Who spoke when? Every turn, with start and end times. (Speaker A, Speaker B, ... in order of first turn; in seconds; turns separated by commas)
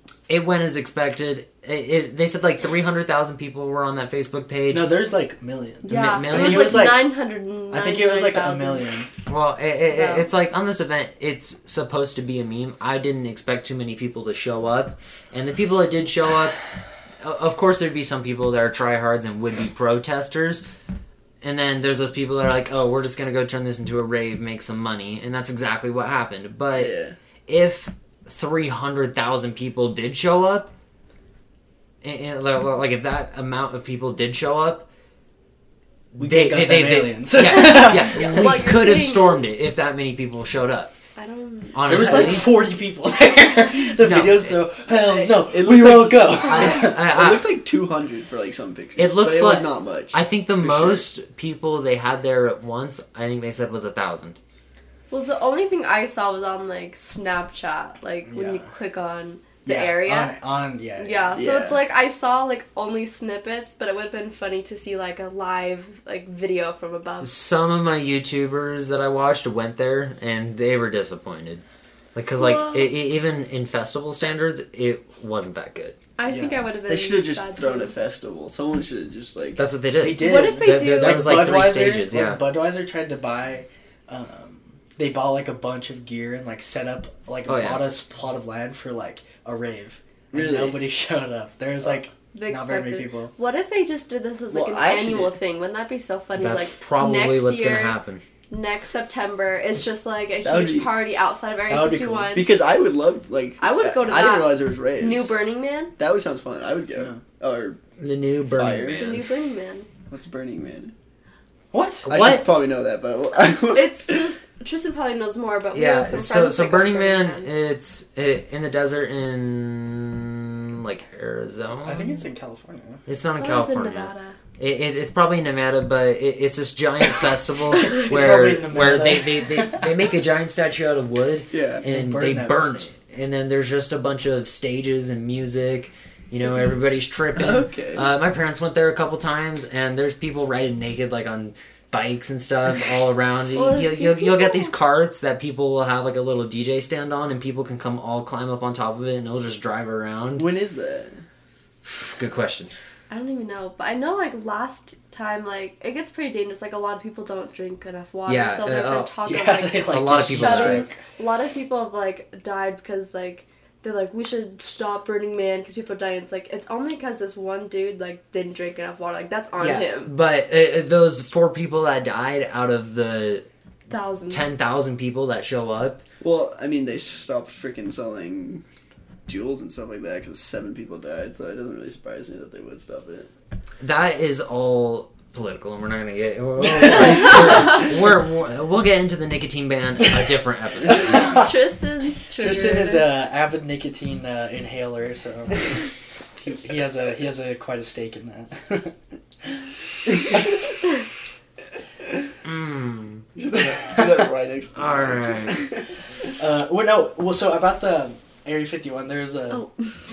Speaker A: 0.3-4.8, Speaker B: 4.7-7.1, Speaker C: 5.8-9.0, Speaker A: 5.8-6.9, Speaker B: 7.7-9.1, Speaker A: 9.3-16.6, Speaker C: 9.9-10.3, Speaker A: 17.2-20.6, Speaker A: 21.4-26.9, Speaker D: 26.7-27.1, Speaker A: 27.5-30.7, Speaker A: 32.0-34.9, Speaker A: 36.1-40.9, Speaker B: 36.2-38.7, Speaker C: 38.1-39.5, Speaker C: 41.1-42.6, Speaker A: 41.7-42.5, Speaker B: 41.8-47.0, Speaker A: 44.0-44.6, Speaker D: 44.9-51.0, Speaker A: 46.4-47.5, Speaker A: 49.0-54.4, Speaker C: 55.1-60.3, Speaker B: 58.3-58.7, Speaker B: 59.6-61.3, Speaker C: 61.0-67.3, Speaker D: 61.4-61.8, Speaker A: 67.2-71.6, Speaker A: 72.1-76.0, Speaker C: 72.4-72.9, Speaker C: 76.2-77.9, Speaker B: 76.3-76.6, Speaker D: 76.9-79.6, Speaker A: 79.5-82.4, Speaker B: 80.0-93.3, Speaker C: 80.2-81.4, Speaker A: 87.5-87.8, Speaker D: 90.3-90.8, Speaker C: 92.3-98.0, Speaker D: 94.5-95.3, Speaker A: 96.3-98.2, Speaker C: 98.5-102.5, Speaker D: 100.4-100.9, Speaker B: 101.7-102.3, Speaker D: 102.3-105.3, Speaker C: 103.6-105.9, Speaker D: 106.0-107.8, Speaker B: 107.0-107.2, Speaker A: 108.0-109.3, Speaker D: 108.4-109.2, Speaker C: 109.0-109.9, Speaker D: 110.1-110.9, Speaker B: 111.7-112.2, Speaker D: 112.1-114.3, Speaker A: 112.1-112.5, Speaker C: 113.7-117.5, Speaker A: 115.7-122.2, Speaker B: 121.8-123.0, Speaker A: 123.1-150.5, Speaker C: 123.4-124.4, Speaker B: 127.9-129.9, Speaker D: 131.5-131.8, Speaker B: 131.8-132.9, Speaker D: 137.3-138.1, Speaker C: 143.5-144.7, Speaker D: 150.3-151.2, Speaker A: 151.8-152.7, Speaker C: 153.1-170.1, Speaker A: 158.3-159.1, Speaker B: 159.2-161.0, Speaker A: 159.8-160.9, Speaker A: 169.6-173.4, Speaker C: 173.9-174.5, Speaker A: 174.3-176.0, Speaker D: 176.2-178.6, Speaker D: 179.3-183.3, Speaker A: 183.8-191.5, Speaker B: 190.9-191.5, Speaker C: 191.2-193.1, Speaker B: 192.4-199.6, Speaker B: 200.3-200.5, Speaker A: 202.4-203.2, Speaker D: 203.3-205.9, Speaker A: 204.8-205.7, Speaker B: 206.4-209.7, Speaker C: 209.5-209.9